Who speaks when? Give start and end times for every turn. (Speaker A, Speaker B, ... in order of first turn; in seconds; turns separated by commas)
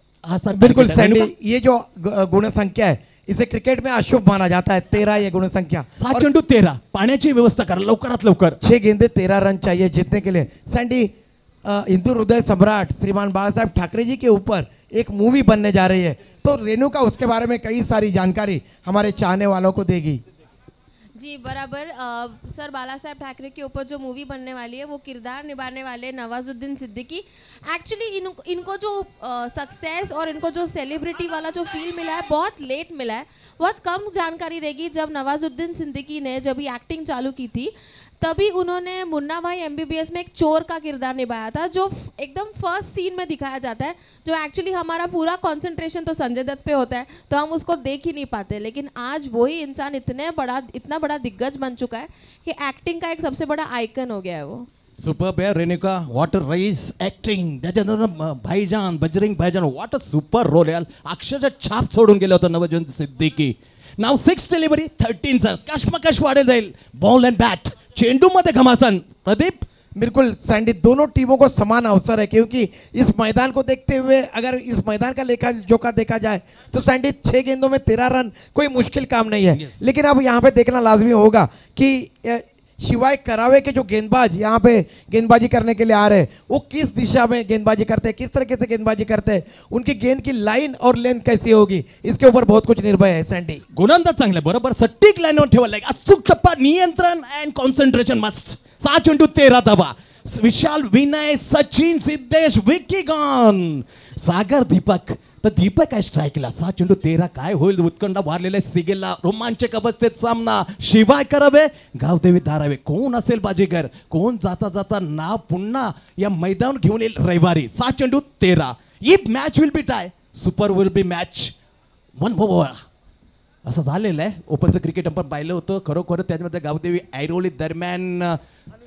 Speaker A: 0.2-1.3, Speaker B: 0.5-6.2, Speaker A: 6.0-8.6, Speaker B: 8.6-11.1, Speaker B: 11.6-20.2, Speaker C: 21.1-54.7, Speaker A: 55.0-69.7, Speaker B: 69.9-93.6, Speaker A: 79.5-79.8, Speaker A: 93.7-121.5, Speaker A: 122.2-122.8, Speaker A: 123.6-128.4